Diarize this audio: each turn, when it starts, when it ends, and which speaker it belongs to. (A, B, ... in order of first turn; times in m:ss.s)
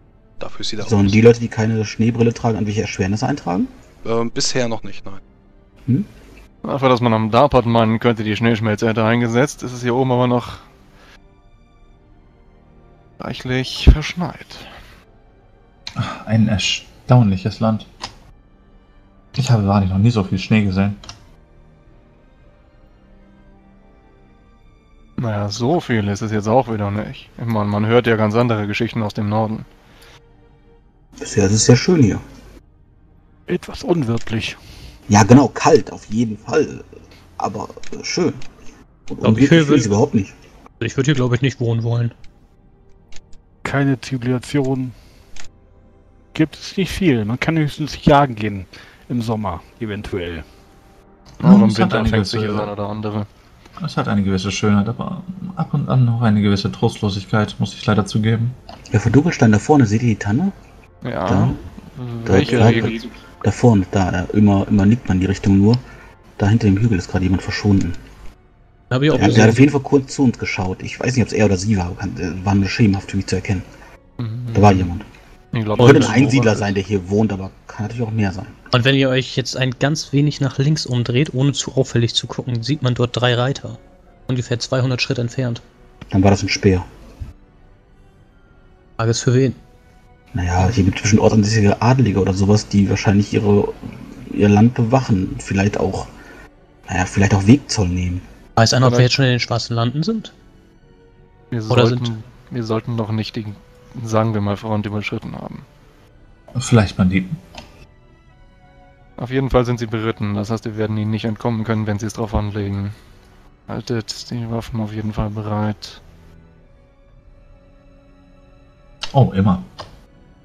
0:00.4-0:01.3 A
0:00.8-0:03.7 B
0:04.0-0:05.2 A
0:06.6-0:10.6 C
0:13.2-0:14.7 C
0:15.9-0:17.9 D
0:19.4-0:21.0 D
0:25.2-0:29.7 C
0:31.2-0:32.2 B
0:33.5-0:34.6 E
0:35.1-0:36.9 B
0:37.4-0:38.4 B
0:39.1-0:40.4 B
0:39.2-0:39.9 F
0:40.8-0:42.1 F
0:43.6-0:45.0 E
0:46.3-0:50.4 E
0:51.4-0:52.7 D
0:51.4-0:53.3 C
0:53.8-0:58.6 D
0:58.9-1:00.5 B
1:01.0-1:03.1 C
1:01.2-1:01.6 B
1:02.2-1:05.8 B
1:06.4-1:08.0 B
1:08.9-1:09.7 F
1:09.1-1:13.6 B
1:14.2-1:14.9 C
1:14.5-1:15.1 B
1:15.5-1:16.7 C
1:15.8-1:18.6 B
1:15.8-1:16.3 F
1:18.7-1:25.6 F
1:26.1-1:26.9 B
1:29.0-1:29.6 F
1:30.3-1:36.1 B
1:36.9-1:38.2 B
1:38.6-1:40.3 F
1:38.8-1:39.1 C
1:41.5-1:45.6 C
1:41.7-1:42.1 F
1:46.6-1:47.4 D
1:49.2-1:52.9 C
1:53.7-1:56.0 C
1:59.1-1:59.6 D